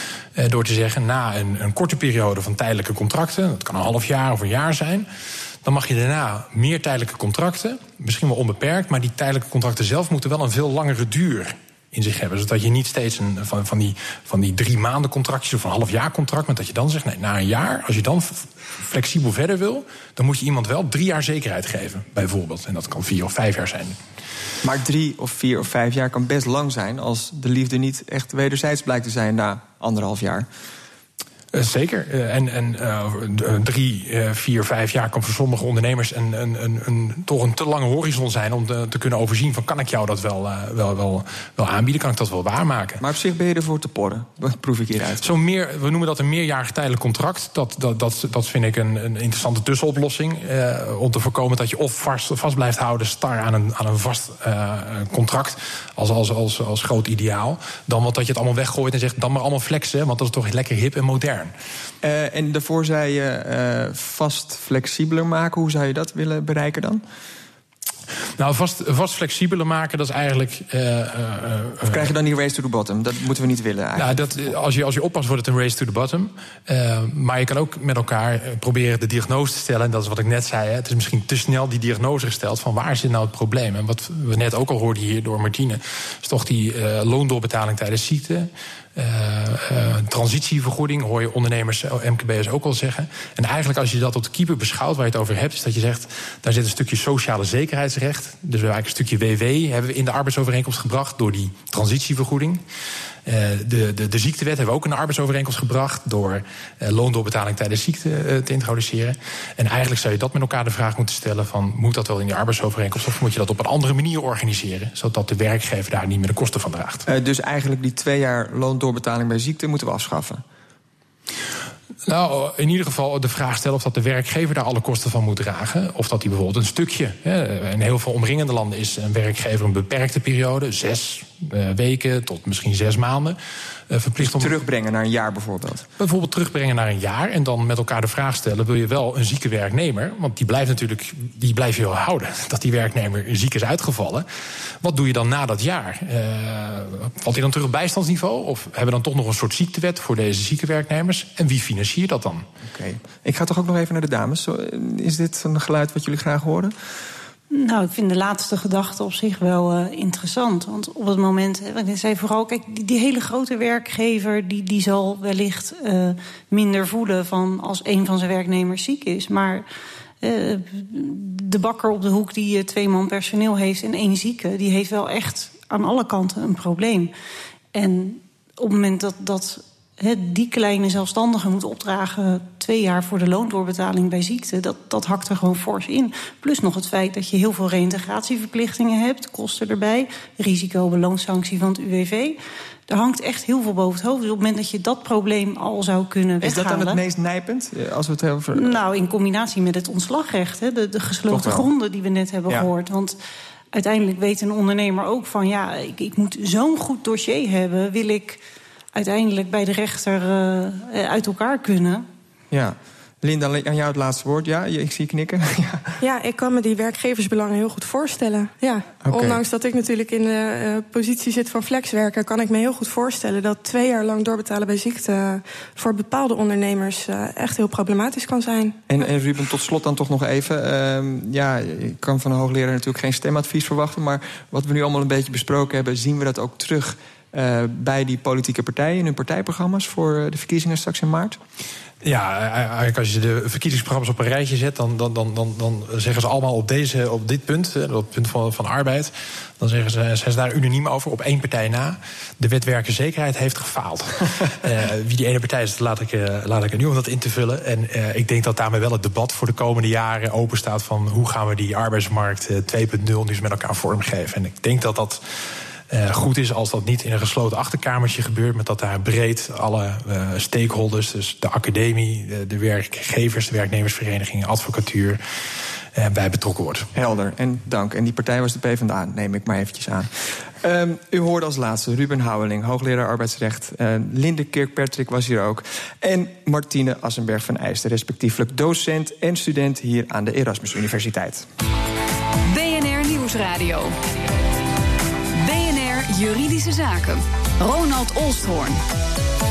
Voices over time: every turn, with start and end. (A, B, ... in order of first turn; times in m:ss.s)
0:00.4-0:05.1 A
0:05.6-0:24.0 A
0:24.6-0:30.5 B
0:31.5-0:43.0 A
0:43.0-0:45.2 B
0:45.2-1:01.5 A
1:02.0-1:07.0 B
1:08.4-1:12.1 A
1:11.8-1:14.3 B
1:14.0-1:42.6 A
1:43.2-1:57.1 A
1:57.1-2:00.4 B
2:02.1-2:13.4 A
2:13.9-2:14.5 A
2:14.2-2:15.9 B
2:16.0-2:24.3 A
2:24.8-2:32.4 A
2:32.7-2:36.7 B
2:37.5-2:49.7 C
2:50.2-2:57.1 C
2:57.7-3:17.0 C
3:16.4-3:18.8 B
3:18.5-3:23.2 C
3:21.3-3:21.7 B
3:23.7-3:28.4 C
3:28.9-3:32.1 C
3:32.5-3:36.0 B
3:36.0-3:48.8 D
3:39.0-3:39.4 B
3:48.9-4:01.4 B
4:02.0-4:25.2 A
4:25.9-4:35.2 A
4:36.0-4:36.9 A
4:37.0-4:51.5 B
4:52.4-4:54.0 E
4:55.3-4:58.8 E